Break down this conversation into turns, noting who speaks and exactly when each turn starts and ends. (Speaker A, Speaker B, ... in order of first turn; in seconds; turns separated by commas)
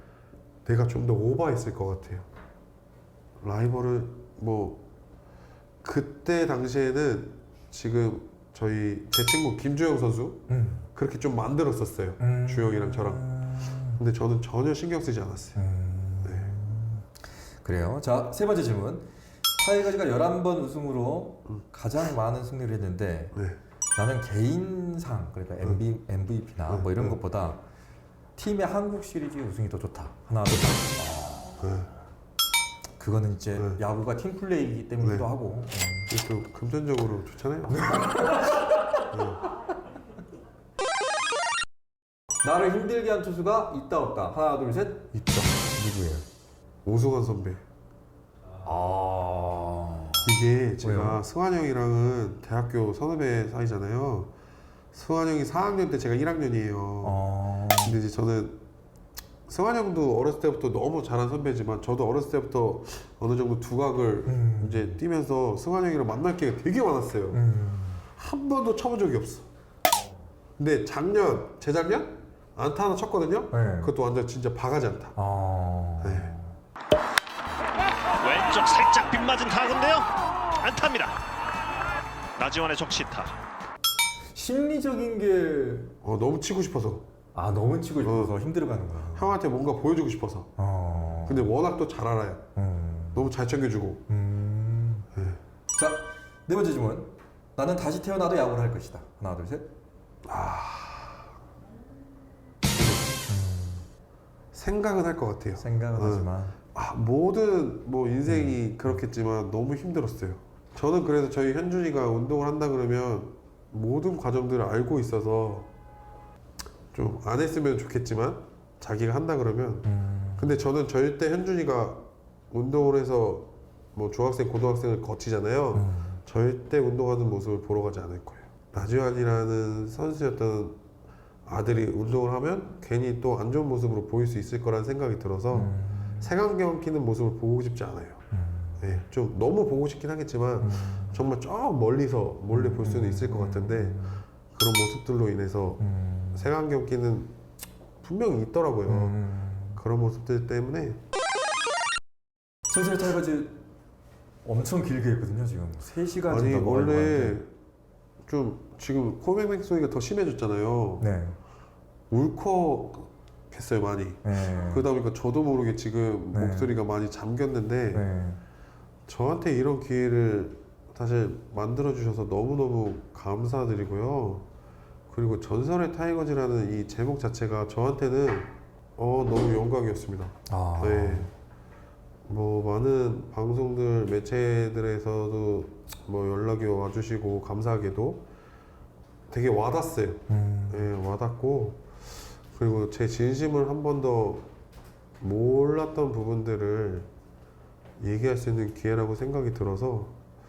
Speaker A: 0.6-2.3, Speaker A: 3.4-4.8, Speaker A: 5.8-10.4, Speaker B: 10.5-10.8, Speaker A: 10.9-13.2, Speaker B: 12.2-14.0, Speaker A: 13.9-15.6, Speaker B: 15.6-23.4, Speaker A: 16.2-16.5, Speaker A: 23.3-23.6, Speaker B: 23.9-27.6, Speaker A: 26.7-27.2, Speaker B: 28.4-31.8, Speaker A: 31.6-31.9, Speaker B: 33.0-36.1, Speaker A: 33.5-33.8, Speaker A: 35.0-35.3, Speaker A: 36.1-38.1, Speaker B: 37.7-39.2, Speaker A: 39.1-39.4, Speaker B: 42.4-46.2, Speaker A: 46.8-47.6, Speaker B: 48.6-51.2, Speaker A: 50.2-54.3, Speaker A: 54.9-57.2, Speaker B: 57.0-58.0, Speaker A: 57.8-58.6, Speaker A: 59.5-67.4, Speaker B: 64.2-65.0, Speaker B: 67.3-68.0, Speaker A: 68.1-69.5, Speaker A: 70.6-75.2, Speaker B: 73.5-73.9, Speaker B: 75.2-76.6, Speaker A: 76.0-76.3, Speaker C: 78.1-81.2, Speaker C: 82.3-83.3, Speaker B: 84.3-85.9, Speaker A: 86.0-87.1, Speaker B: 87.3-89.4, Speaker A: 88.0-88.3, Speaker A: 89.1-90.5, Speaker B: 90.6-91.5, Speaker A: 91.2-92.4, Speaker B: 92.5-93.3, Speaker A: 93.1-94.0, Speaker B: 94.1-95.1, Speaker A: 95.1-95.4, Speaker B: 95.7-99.7, Speaker A: 100.2-101.3, Speaker A: 102.7-103.1, Speaker B: 103.3-103.8, Speaker A: 104.5-115.7, Speaker B: 105.6-106.6, Speaker B: 108.2-109.0, Speaker A: 116.9-130.8, Speaker B: 119.8-120.5, Speaker B: 125.7-126.2, Speaker A: 131.4-138.2, Speaker B: 135.5-136.3, Speaker B: 138.3-138.9, Speaker A: 138.8-144.0, Speaker B: 140.6-141.2, Speaker B: 142.5-144.2, Speaker A: 144.5-145.8, Speaker B: 145.8-146.5, Speaker A: 146.3-147.3, Speaker A: 148.0-149.2, Speaker B: 148.9-149.8, Speaker A: 149.8-151.0, Speaker B: 152.7-153.6, Speaker B: 154.4-157.4, Speaker A: 156.3-157.5, Speaker A: 158.2-161.1, Speaker B: 161.0-161.4, Speaker A: 162.1-168.1, Speaker B: 164.2-164.9, Speaker B: 166.3-166.7, Speaker B: 167.9-168.4, Speaker A: 169.1-174.5, Speaker A: 175.1-181.3, Speaker B: 180.5-181.3, Speaker A: 182.2-188.3, Speaker A: 189.3-191.9, Speaker B: 190.3-190.9, Speaker A: 192.5-194.5, Speaker A: 195.2-197.1, Speaker A: 198.0-200.1